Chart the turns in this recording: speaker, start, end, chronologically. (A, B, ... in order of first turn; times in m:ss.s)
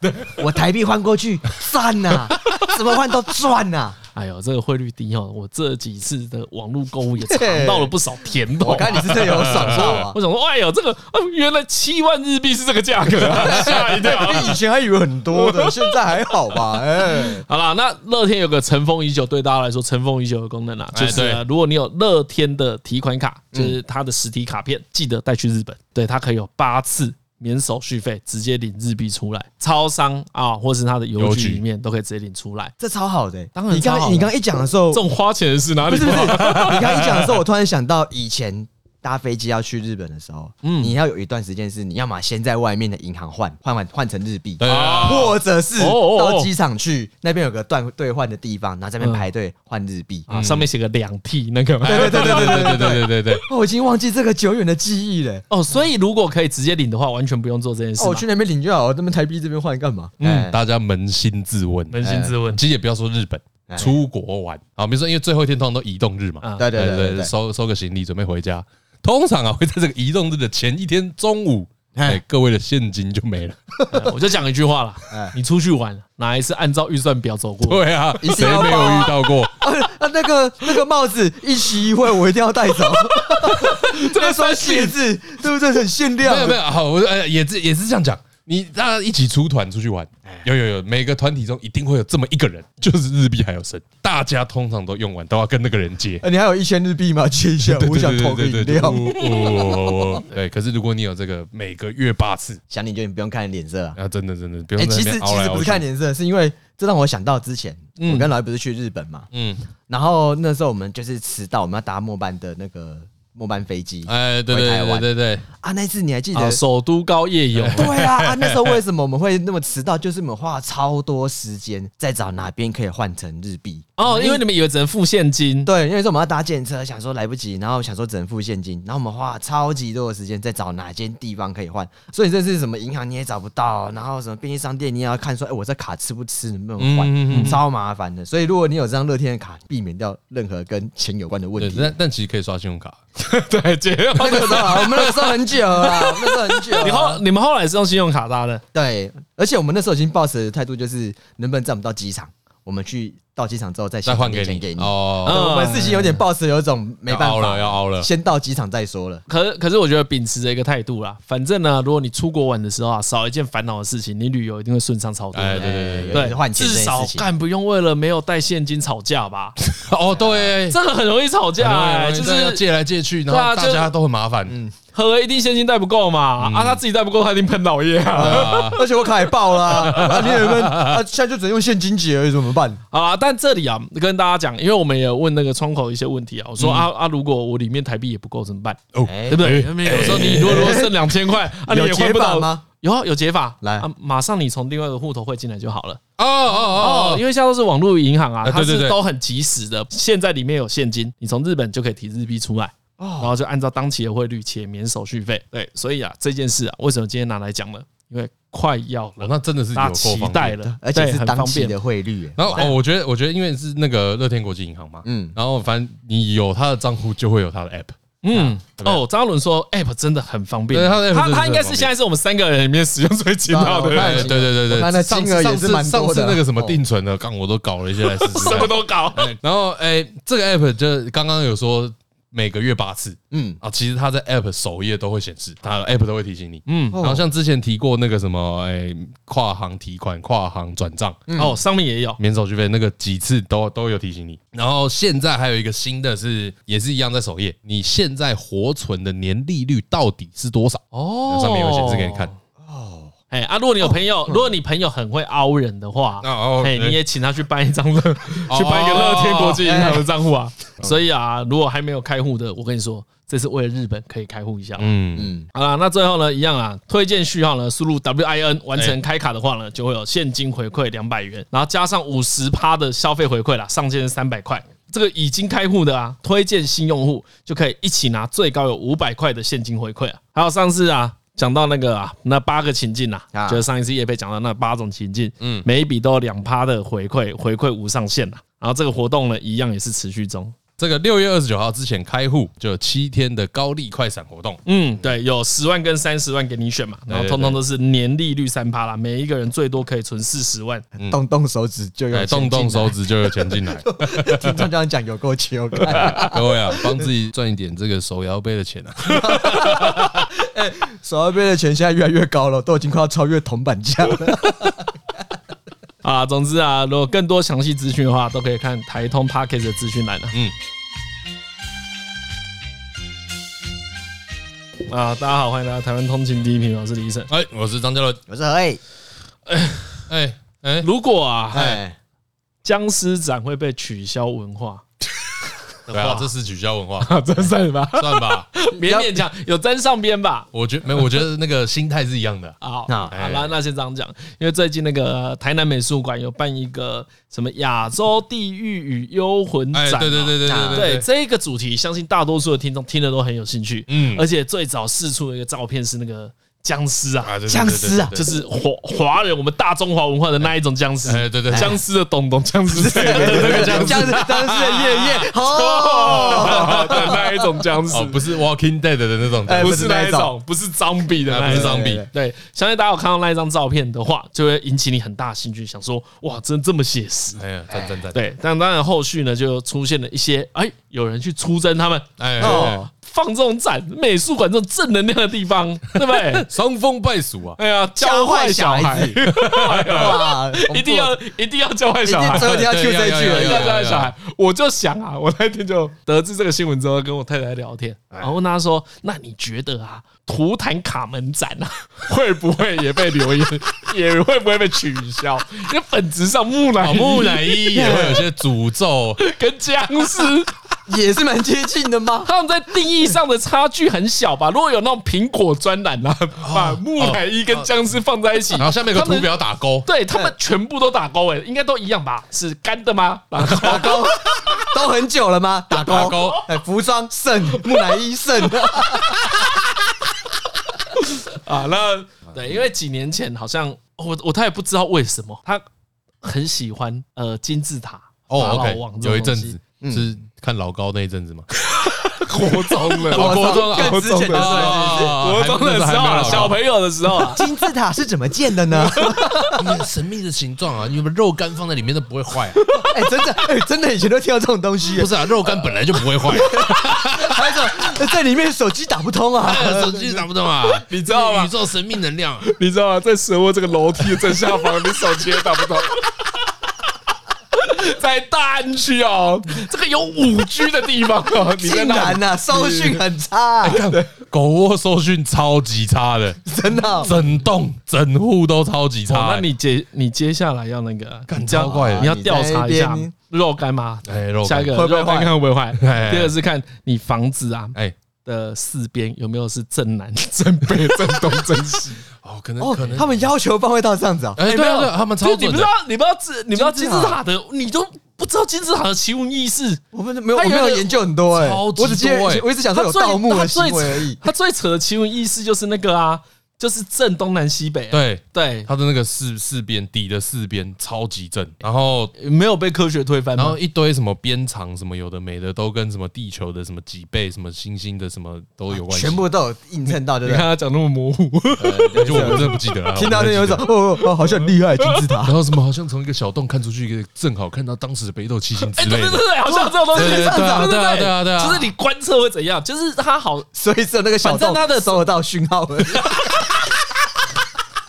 0:00.3-0:04.0 A
0:04.2-0:14.6 B
0:07.3-0:07.9 A
0:08.6-0:10.2 A
0:09.2-0:10.0 C
0:13.3-0:17.5 A
0:13.4-0:14.1 C
0:15.3-0:16.2 B
0:17.0-0:32.7 B
0:20.9-0:21.4 C
0:23.5-0:23.8 A
0:31.2-0:31.6 C
0:32.8-0:35.0 A
0:33.6-0:34.4 B
0:34.9-0:37.2 B
0:35.8-0:50.3 A
0:36.3-0:36.9 C
0:40.6-0:41.0 B
0:44.6-0:45.4 C
0:44.6-0:46.5 B
0:49.0-0:49.3 B
0:50.3-0:52.8 B
0:50.3-0:50.7 C
0:51.8-0:55.4 A
0:51.9-0:53.4 C
0:55.5-0:58.3 B
0:58.0-1:00.6 A
1:00.2-1:00.5 B
1:00.2-1:13.8 C
1:01.9-1:02.6 B
1:02.0-1:02.3 A
1:03.7-1:04.0 A
1:06.4-1:06.7 B
1:06.6-1:07.3 A
1:12.0-1:12.2 A
1:13.9-1:17.8 B
1:17.6-1:19.6 C
1:18.2-1:26.6 A
1:23.2-1:25.0 B
1:26.2-1:36.2 C
1:36.2-1:40.2 A
1:37.6-1:42.6 C
1:42.7-1:44.0 A
1:44.0-1:45.8 C
1:44.8-1:49.3 A
1:48.0-1:48.3 B
1:49.3-1:49.7 C
1:49.9-1:56.6 A
1:54.1-1:55.4 C
1:56.3-1:57.9 B
1:57.5-1:58.8 C
1:57.8-2:04.4 A
2:04.0-2:05.7 B
2:05.6-2:22.0 A
2:16.8-2:17.6 C
2:17.3-2:17.6 B
2:21.6-2:23.0 C
2:23.2-2:28.6 B
2:24.1-2:27.2 A
2:28.7-2:39.2 A
2:34.1-2:35.5 C
2:35.3-2:36.2 B
2:37.1-2:38.1 C
2:39.3-2:49.6 B
2:45.3-2:46.2 C
2:45.5-2:47.3 A
2:49.7-2:50.8 C
2:50.1-2:50.6 A
2:50.7-2:52.6 B
2:51.6-2:54.6 C
2:53.3-2:53.9 B
2:54.5-2:54.7 A
2:54.9-2:58.8 B
2:56.4-2:56.8 C
2:58.2-2:58.9 C
2:58.2-3:02.8 A
2:59.6-3:01.0 C
3:02.9-3:16.0 B
3:06.6-3:06.9 C
3:08.9-3:10.9 C
3:09.0-3:11.0 A
3:11.5-3:12.6 A
3:13.6-3:13.9 A
3:16.2-3:17.2 C
3:16.8-3:31.8 B
3:18.4-3:19.0 C
3:23.0-3:23.3 A
3:29.2-3:30.6 C
3:30.8-3:32.7 A
3:32.4-3:38.0 C
3:35.0-3:35.4 A
3:38.2-3:44.3 B
3:38.7-3:39.0 C
3:40.7-3:41.9 C
3:43.5-3:46.8 A
3:43.9-4:01.2 C
3:48.0-3:49.3 B
3:53.3-3:53.6 A
3:56.7-3:57.0 B
3:56.9-3:57.2 A
4:01.3-4:01.6 A
4:01.4-4:02.2 B
4:02.2-4:12.3 C
4:10.9-4:12.4 B
4:12.6-4:13.1 A
4:13.3-4:24.9 B
4:16.2-4:17.0 C
4:18.5-4:20.0 C
4:19.7-4:20.0 A
4:24.8-4:25.3 C
4:25.2-4:25.5 A
4:25.5-4:50.6 B
4:43.3-4:43.6 A
4:45.4-4:45.7 C
4:50.8-4:54.6 C
4:54.7-5:00.8 B
4:57.1-4:57.6 C
5:01.1-5:07.0 A
5:02.1-5:04.7 C
5:05.9-5:10.3 C
5:06.0-5:06.3 B
5:09.2-5:14.9 A
5:16.0-5:20.4 B
5:24.9-5:27.3 B
5:27.3-5:28.2 C
5:28.3-5:28.8 A
5:29.5-5:30.0 B
5:30.1-5:30.9 C
5:30.8-5:31.8 B
5:31.5-5:32.0 A
5:31.6-5:31.8 C
5:32.6-5:34.8 B
5:35.9-5:36.3 B
5:35.9-5:38.5 C
5:37.0-5:40.5 B
5:38.8-5:39.2 A
5:40.5-5:42.6 C
5:42.6-5:57.3 B
5:42.9-5:43.1 A
5:43.1-5:43.5 C
5:49.7-5:51.0 C
5:50.4-5:50.9 A
5:53.9-5:54.2 C
5:57.2-5:58.3 C
5:57.5-5:58.2 A
5:58.1-6:04.1 B
6:01.0-6:01.8 C
6:01.5-6:01.8 A
6:02.7-6:07.4 A
6:02.9-6:05.3 C
6:05.5-6:08.2 B
6:06.1-6:07.2 C
6:07.9-6:09.8 C
6:09.4-6:10.3 A
6:09.5-6:17.4 B
6:11.3-6:12.1 C
6:11.4-6:12.1 A
6:17.4-6:18.2 C
6:18.1-6:26.5 B
6:22.2-6:22.9 C
6:22.4-6:22.9 A
6:26.0-6:27.6 C
6:27.6-6:32.6 B
6:28.0-6:29.2 A
6:29.3-6:30.2 C
6:29.8-6:31.2 A
6:32.0-6:33.7 A
6:32.3-6:34.1 C
6:33.2-6:47.6 B
6:46.8-6:49.2 C
6:47.7-6:48.3 A
6:49.2-6:50.6 B
6:50.9-6:52.3 A
6:52.2-6:59.3 B
6:56.4-6:57.7 C
6:58.6-6:59.9 C
6:59.8-7:04.1 B
7:03.5-7:09.4 A
7:05.8-7:06.5 C
7:06.0-7:06.3 B
7:11.0-7:15.6 B
7:16.2-7:19.6 B
7:18.3-7:21.5 C
7:19.8-7:20.1 A
7:21.6-7:27.6 B
7:22.9-7:25.2 A
7:23.1-7:26.6 C
7:27.2-7:29.8 A
7:28.7-7:29.6 B
7:29.6-7:32.6 C
7:32.6-7:32.9 B
7:32.8-7:40.3 A
7:34.9-7:37.9 C
7:39.4-7:42.5 C
7:40.9-7:41.5 B
7:42.4-7:46.5 B
7:47.5-7:53.0 B
7:51.6-7:53.8 A
7:53.6-7:56.4 C
7:53.7-7:54.1 B
7:56.5-7:57.1 A
7:57.0-7:59.5 C
7:59.1-8:12.0 B
8:01.3-8:02.1 C
8:01.7-8:03.1 A
8:04.1-8:04.8 C
8:04.7-8:05.4 A
8:05.8-8:06.3 C
8:12.2-8:13.2 C
8:12.6-8:14.4 A
8:14.4-8:15.7 C
8:14.4-8:19.8 B
8:16.5-8:17.2 A
8:19.9-8:24.2 A
8:20.3-8:21.0 B
8:21.3-8:22.5 C
8:22.7-8:28.7 B
8:27.9-8:32.1 C
8:32.2-8:33.6 B
8:33.4-8:39.2 C
8:38.7-8:40.5 A
8:40.2-8:42.6 B
8:41.6-8:45.4 A
8:42.0-8:43.7 C
8:45.2-8:49.3 C
8:48.6-8:53.5 B
8:49.5-8:50.7 A
8:49.9-8:51.7 C
8:53.6-8:56.4 A
8:54.2-8:55.0 B